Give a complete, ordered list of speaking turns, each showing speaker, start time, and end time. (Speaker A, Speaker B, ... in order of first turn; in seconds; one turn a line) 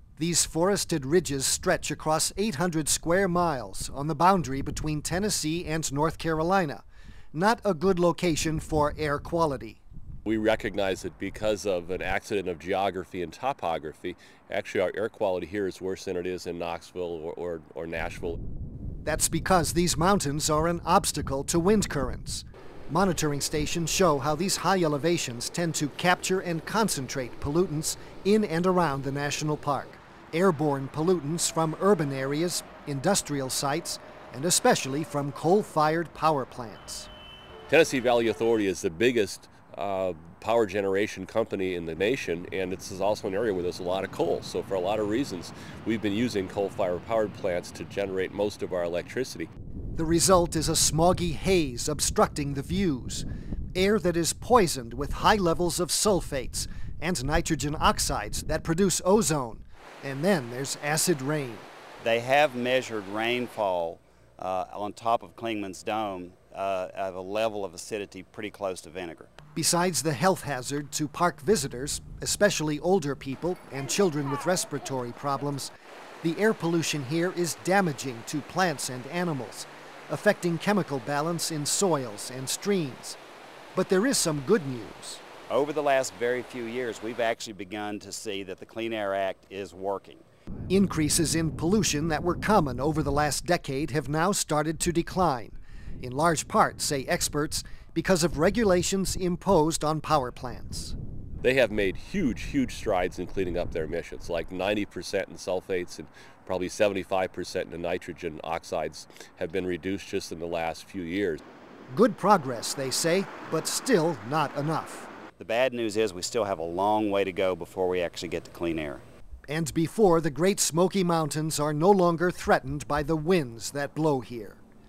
Speaker A: 0.2-9.8
Speaker B: 10.3-18.4
Speaker A: 19.1-37.1
Speaker B: 37.7-49.5
Speaker A: 50.0-61.7
Speaker C: 62.0-69.3
Speaker A: 69.5-75.7
Speaker A: 76.2-83.2
Speaker A: 83.7-85.2
Speaker C: 85.5-90.2
Speaker A: 90.7-101.0
Speaker B: 101.4-111.4
Speaker A: 111.9-115.1
Speaker C: 115.4-119.0
Speaker A: 119.5-124.6